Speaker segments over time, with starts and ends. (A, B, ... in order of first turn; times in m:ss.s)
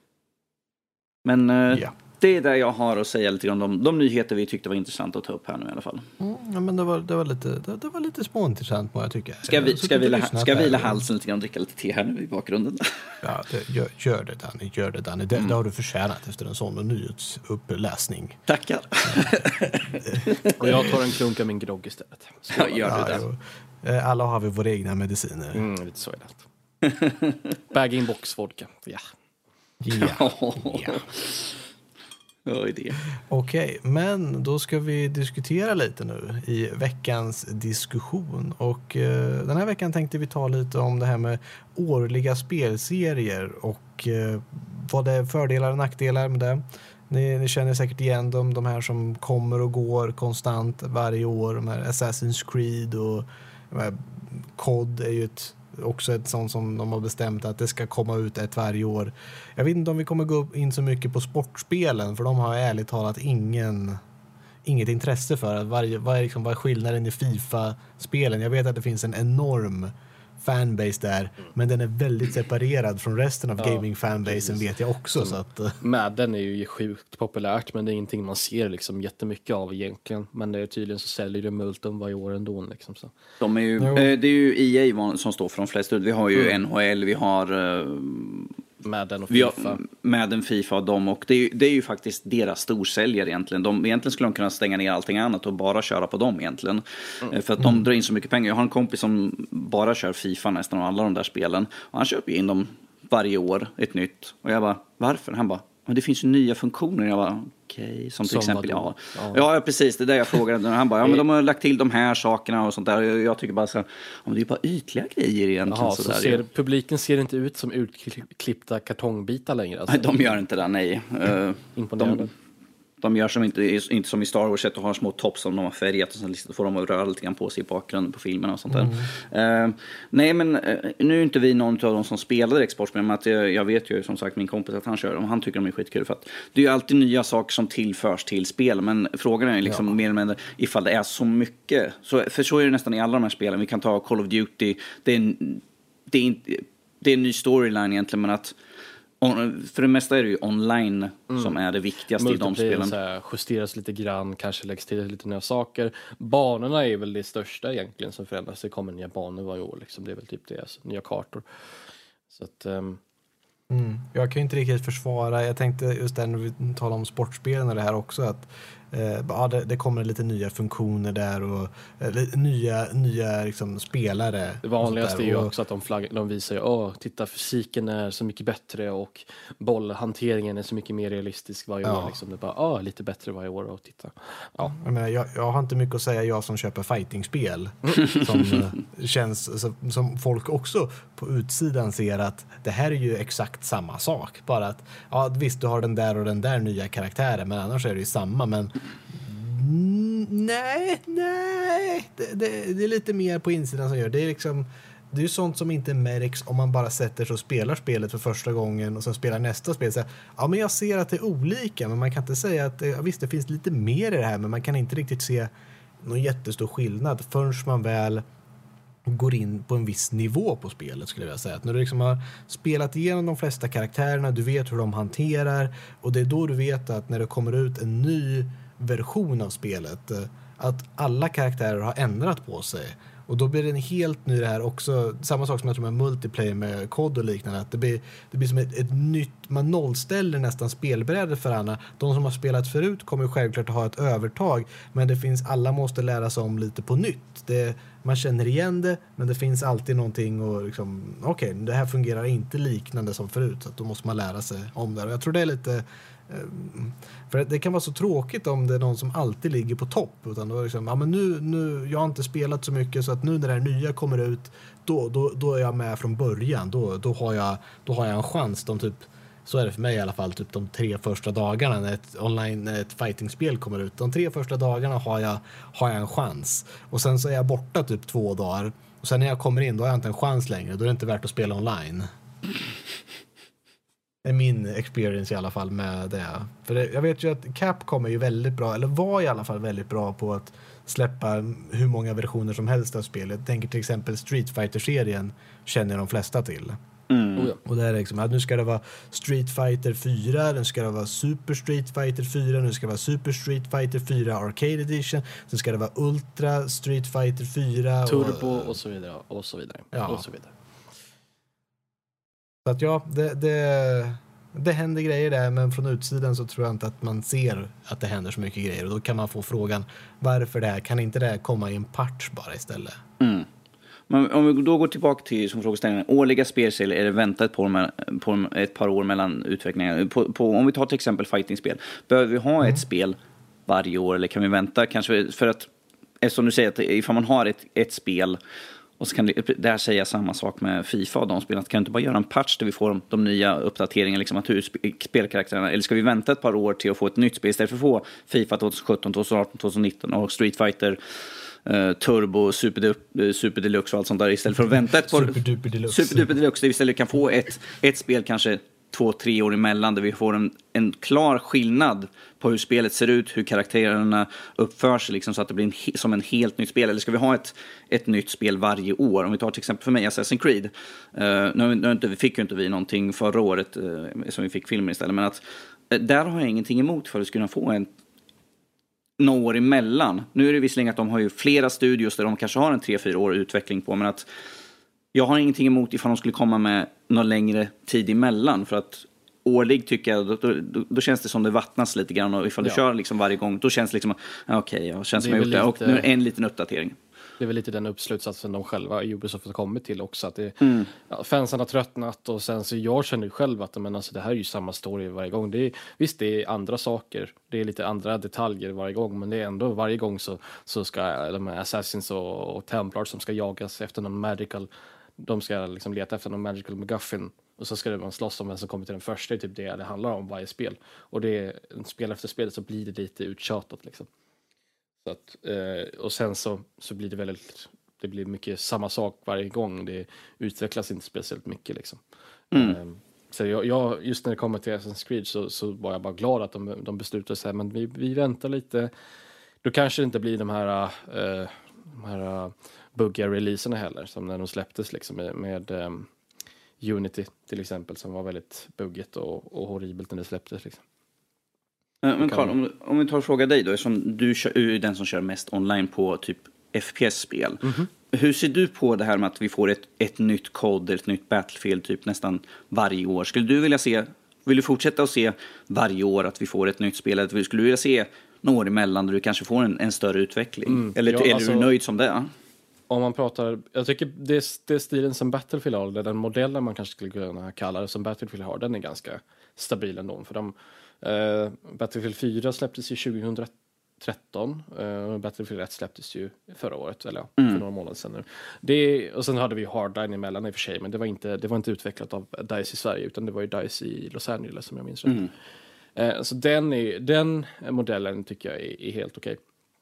0:01.2-0:06.0 A
0:06.2-0:11.0 B
0:09.5-0:13.2 A
0:13.2-0:18.4 B
0:18.5-0:20.6 A
0:20.6-0:23.2 C
0:22.5-0:23.2 A
0:22.8-0:25.6 B
0:25.5-0:26.4 C
0:26.8-0:27.4 A
0:27.7-0:29.1 C
0:29.8-0:31.0 B
0:29.9-0:31.6 A
0:32.4-0:33.0 A
0:33.3-1:04.0 B
1:04.6-1:15.8 B
1:13.6-1:14.6 C
1:15.2-1:23.1 C
1:23.4-1:28.5 A
1:23.8-1:24.1 B
1:28.8-1:29.8 C
1:29.3-1:56.4 A
1:48.2-1:49.4 C
1:55.7-2:00.3 C
1:59.9-2:02.3 A
2:01.7-2:02.3 C
2:03.0-2:28.5 A
2:08.7-2:09.0 B
2:29.2-2:32.9 A
2:31.3-2:31.6 C
2:32.2-2:41.4 C
2:42.3-2:43.0 C
2:43.7-2:55.5 B
2:54.6-3:04.8 C
3:01.8-3:02.1 B
3:04.7-3:35.5 B
3:36.0-3:38.2 B
3:39.0-4:42.1 B
4:44.2-4:56.8 B
4:57.1-4:57.5 A
4:57.6-5:08.7 B
5:08.0-5:10.5 C
5:09.9-5:10.2 B
5:12.6-5:23.0 B
5:23.2-5:23.5 A
5:24.1-5:35.7 A
5:36.2-5:38.4 A
5:39.0-5:51.0 A
5:51.6-6:17.9 A
5:55.1-5:56.3 B
6:19.2-6:24.3 A
6:25.1-6:37.0 A
6:35.2-6:36.1 C
6:37.4-7:04.1 C
6:40.6-6:40.9 A
7:05.0-7:12.0 C
7:12.5-7:12.8 A
7:12.5-7:18.9 C
7:19.6-7:26.1 C
7:26.8-7:30.8 C
7:32.0-7:52.3 A
7:32.2-7:32.5 C
7:37.6-7:37.9 C
7:50.7-7:51.7 C
7:52.9-8:15.3 C
8:16.0-8:19.4 C